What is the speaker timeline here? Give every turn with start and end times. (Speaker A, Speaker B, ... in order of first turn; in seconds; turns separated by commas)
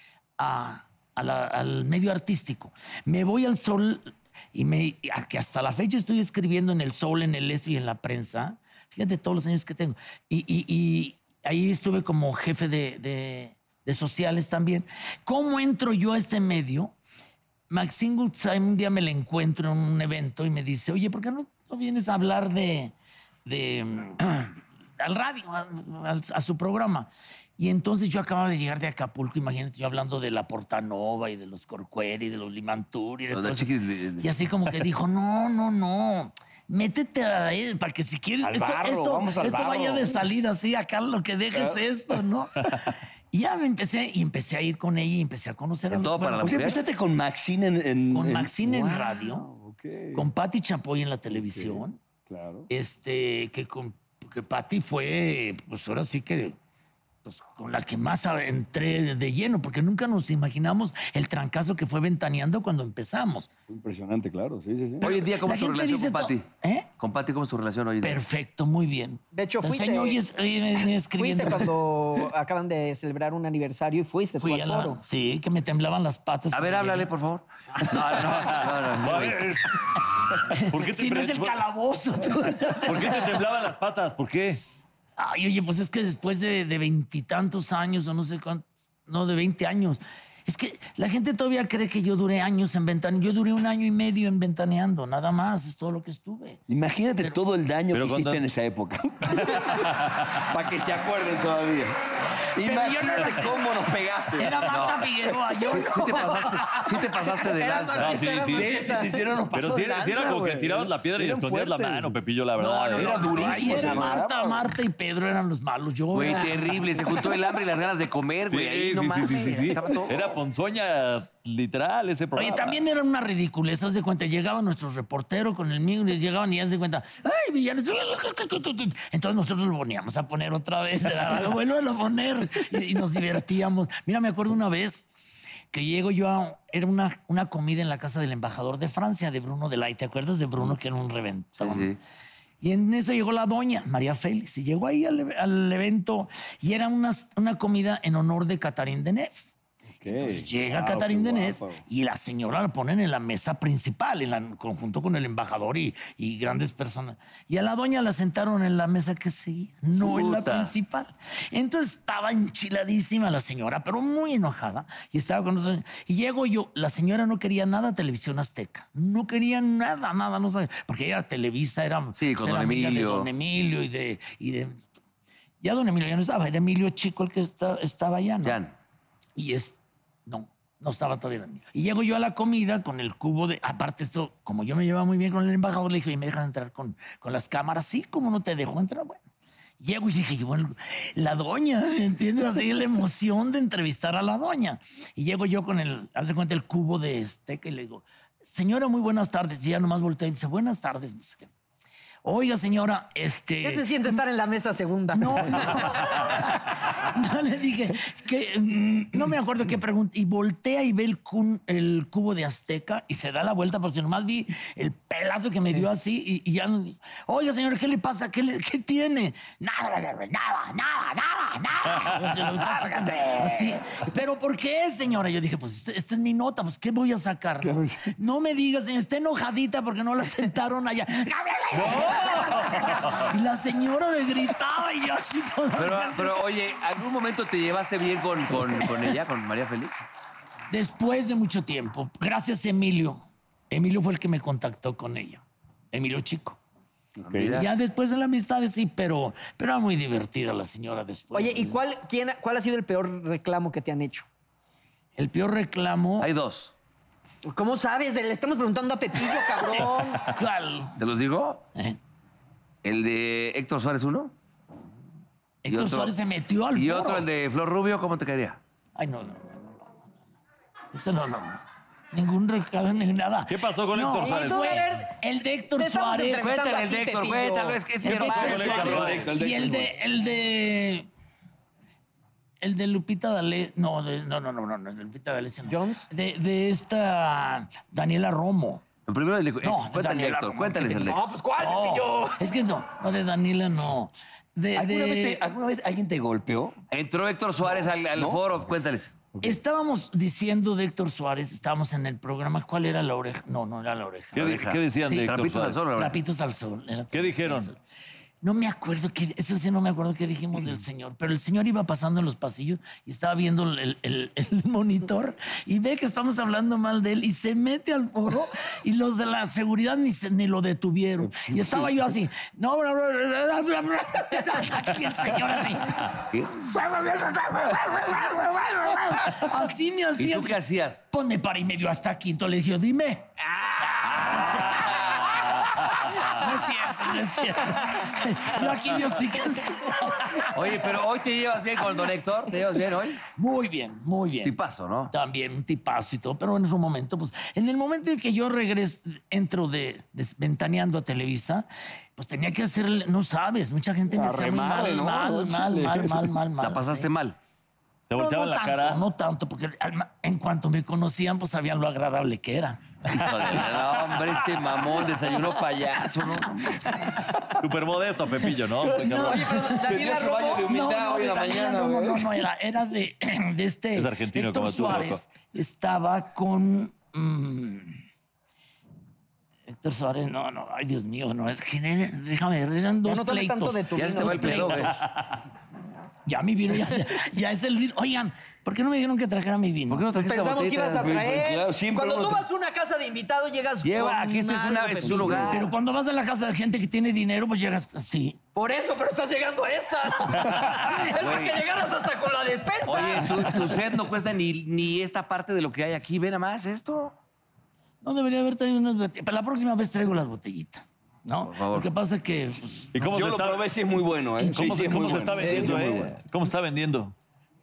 Speaker A: 0.4-16.9, Speaker A: 17.7-22.9, Speaker A: 23.4-42.8, Speaker B: 33.3-34.3, Speaker C: 38.4-40.1, Speaker C: 41.5-41.8, Speaker A: 43.3-46.8, Speaker B: 45.9-46.8, Speaker C: 46.4-50.3, Speaker A: 48.1-49.5, Speaker A: 50.1-52.0, Speaker C: 51.5-52.7, Speaker A: 52.7-56.6, Speaker A: 57.2-63.5, Speaker C: 63.7-65.2, Speaker B: 65.0-66.5, Speaker A: 65.1-66.9, Speaker B: 67.0-68.2, Speaker A: 68.0-71.7, Speaker D: 69.3-70.2, Speaker D: 71.2-75.0, Speaker A: 74.4-77.1, Speaker B: 76.5-79.4, Speaker E: 78.1-79.8, Speaker A: 80.5-83.5, Speaker E: 80.6-81.6, Speaker E: 82.8-84.6, Speaker A: 85.2-96.6, Speaker C: 96.7-102.0, Speaker E: 97.9-98.5, Speaker E: 99.3-100.5, Speaker C: 102.5-104.6, Speaker A: 102.6-106.8, Speaker B: 104.6-105.1, Speaker B: 105.7-108.2, Speaker D: 107.6-109.2, Speaker E: 108.0-108.8, Speaker C: 108.5-112.1, Speaker E: 109.5-113.9, Speaker A: 112.6-117.2, Speaker C: 112.9-114.7, Speaker B: 116.1-120.3, Speaker E: 118.5-122.8, Speaker D: 119.4-119.7, Speaker A: 122.3-135.1, Speaker A: 135.7-141.9, Speaker B: 141.6-142.0, Speaker A: 142.6-149.4, Speaker C: 150.0-151.8, Speaker A: 150.0-174.8, Speaker B: 160.0-160.7, Speaker B: 172.2-173.3, Speaker A: 175.6-178.6, Speaker B: 178.4-178.7, Speaker A: 179.4-189.2, Speaker A: 189.8-201.5, Speaker A: 202.2-204.2, Speaker D: 203.6-206.0, Speaker A: 205.1-236.4, Speaker C: 227.6-228.1, Speaker E: 232.7-233.1, Speaker B: 235.8-240.0, Speaker A: 238.8-239.1, Speaker A: 240.7-246.6, Speaker C: 247.2-247.5, Speaker B: 247.3-247.7, Speaker A: 247.4-251.8, Speaker D: 251.3-254.3, Speaker A: 255.2-256.3, Speaker B: 256.2-256.7, Speaker D: 257.4-260.2, Speaker A: 259.3-261.0, Speaker B: 261.0-261.6, Speaker B: 262.8-264.3, Speaker A: 265.6-267.3, Speaker B: 265.7-266.1, Speaker B: 266.7-268.6, Speaker A: 268.9-269.9, Speaker A: 270.9-276.6, Speaker E: 273.5-274.9, Speaker D: 274.2-275.1, Speaker D: 275.8-278.9, Speaker B: 276.4-279.3, Speaker A: 278.0-281.1, Speaker C: 278.2-279.9, Speaker E: 278.3-279.3, Speaker A: 282.6-288.8, Speaker D: 285.6-286.1, Speaker B: 289.1-291.2, Speaker A: 289.6-295.4, Speaker D: 291.0-292.4, Speaker C: 294.8-296.8, Speaker B: 296.9-299.2, Speaker C: 298.1-298.4, Speaker C: 299.3-299.6, Speaker A: 299.4-304.5, Speaker E: 304.3-305.8, Speaker B: 304.4-306.2, Speaker A: 305.9-307.8, Speaker E: 307.1-307.7, Speaker A: 308.4-330.6, Speaker C: 321.2-321.9, Speaker B: 326.2-326.6, Speaker B: 330.2-331.0, Speaker A: 331.1-333.3, Speaker A: 333.8-340.7, Speaker B: 334.1-335.1, Speaker B: 340.5-343.2, Speaker A: 343.3-344.5, Speaker B: 344.4-345.1, Speaker A: 345.1-357.1, Speaker C: 354.1-356.3, Speaker B: 356.6-357.4, Speaker E: 358.1-359.0, Speaker A: 358.1-363.6, Speaker E: 363.1-363.9, Speaker B: 363.2-366.9, Speaker E: 367.6-369.2, Speaker C: 368.8-372.3, Speaker A: 368.9-370.0, Speaker D: 369.2-370.7, Speaker A: 370.6-378.0, Speaker E: 374.0-375.2, Speaker A: 379.7-385.0, Speaker D: 383.1-384.9, Speaker B: 383.9-385.0, Speaker A: 386.3-390.1, Speaker B: 389.9-391.1, Speaker D: 390.2-395.6, Speaker C: 390.9-392.5, Speaker B: 393.8-395.7, Speaker C: 395.1-395.5, Speaker A: 395.4-398.4, Speaker D: 398.6-403.6, Speaker B: 401.2-401.6, Speaker B: 402.9-407.1, Speaker A: 408.0-412.9, Speaker B: 411.5-411.9, Speaker E: 412.9-413.7, Speaker C: 413.0-416.2, Speaker A: 414.4-416.1, Speaker E: 414.5-417.1